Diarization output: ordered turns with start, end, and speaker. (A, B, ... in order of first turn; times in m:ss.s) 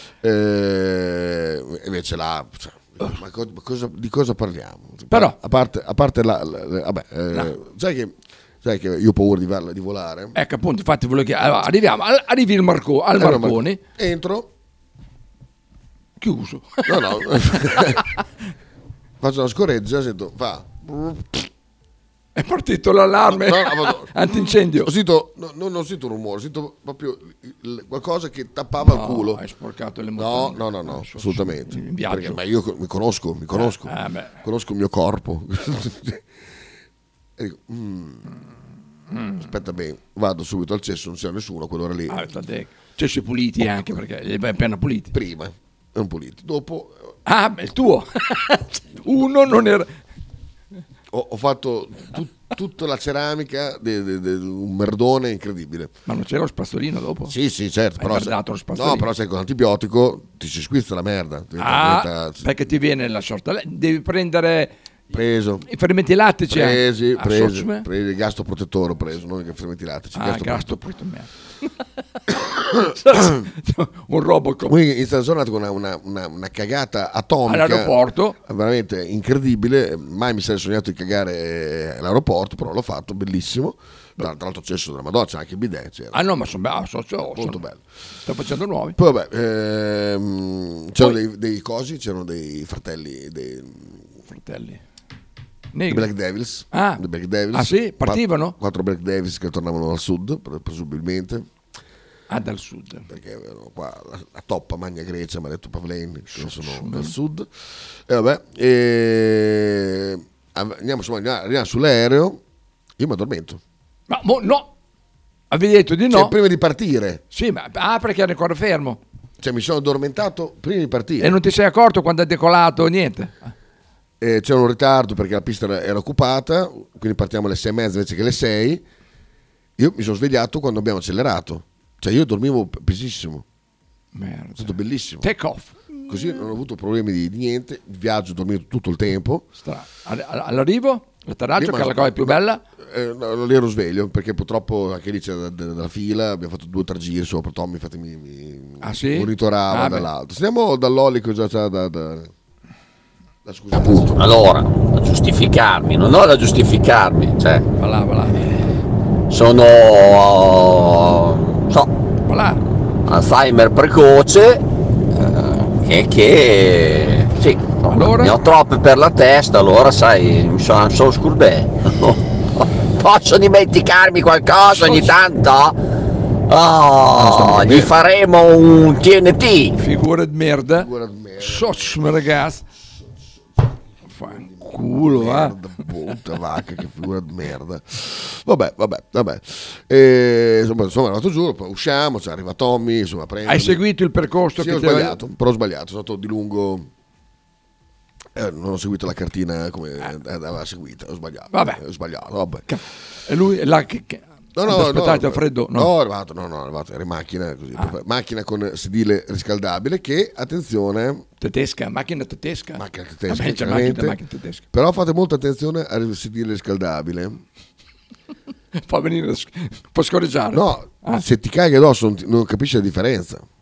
0:00.2-0:10.4 A
0:05.1-0:05.4 B
0:10.3-0:13.8 B
0:13.2-0:14.5 A
0:16.2-0:17.9 B
0:16.8-0:18.0 A
0:19.2-0:21.5 A
0:22.3-0:24.9 B
0:23.3-0:24.1 A
0:24.7-0:29.4 A
0:28.8-0:32.4 B
0:30.2-0:36.2 A
0:33.5-0:34.4 B
0:37.4-0:38.3 A
0:39.1-0:39.4 B
0:39.4-0:42.2 A
0:42.1-0:45.1 B
0:45.1-0:47.1 A
0:47.2-0:49.9 B
0:51.1-0:55.9 A
0:56.0-0:57.3 B
0:57.3-1:02.4 A
0:58.0-0:59.1 B
1:01.6-1:04.7 B
1:05.1-1:05.6 A
1:05.7-1:07.8 B
1:06.5-1:10.7 A
1:10.1-1:11.3 B
1:12.9-1:14.7 B
1:14.7-1:26.2 A
1:17.4-1:18.4 B
1:26.1-1:27.6 B
1:27.3-1:27.8 A
1:28.2-1:29.0 B
1:29.0-1:34.0 A
1:34.3-1:34.8 B
1:35.7-1:36.1 B
1:35.9-1:41.5 A
1:36.7-1:37.0 B
1:37.5-1:38.5 B
1:42.3-1:43.1 B
1:43.1-1:47.5 A
1:46.3-1:47.1 B
1:48.1-1:52.4 A
1:53.0-1:53.6 A
1:54.1-1:54.7 B
1:55.5-1:56.3 B
1:56.1-1:57.2 A
1:57.3-1:59.0 B
1:59.4-2:01.4 A
2:01.2-2:03.5 B
2:04.2-2:08.8 A
2:09.8-2:13.4 A
2:14.1-2:16.0 B
2:14.6-2:15.3 A
2:16.1-2:19.5 A
2:19.6-2:22.6 B
2:21.6-2:32.3 A
2:28.8-2:30.1 B
2:33.4-2:34.2 A
2:34.0-2:37.6 C
2:37.8-2:38.5 B
2:39.3-2:41.9 C
2:42.2-2:42.6 B
2:43.1-2:44.6 C
2:45.2-2:55.8 C
2:47.9-2:48.3 B
2:54.7-2:55.1 B
2:56.5-2:59.8 C
2:57.2-2:57.9 A
2:59.8-3:00.9 B
3:00.7-3:02.2 A
3:01.4-3:02.6 B
3:04.1-3:05.6 B
3:04.2-3:13.8 A
3:13.4-3:15.2 B
3:14.6-3:16.9 A
3:18.3-3:22.6 A
3:21.5-3:21.8 B
3:22.7-3:25.9 B
3:24.5-3:31.2 A
3:31.4-3:34.6 B
3:32.8-3:34.2 A
3:34.7-3:37.4 A
3:38.8-3:41.2 B
3:40.5-3:43.4 A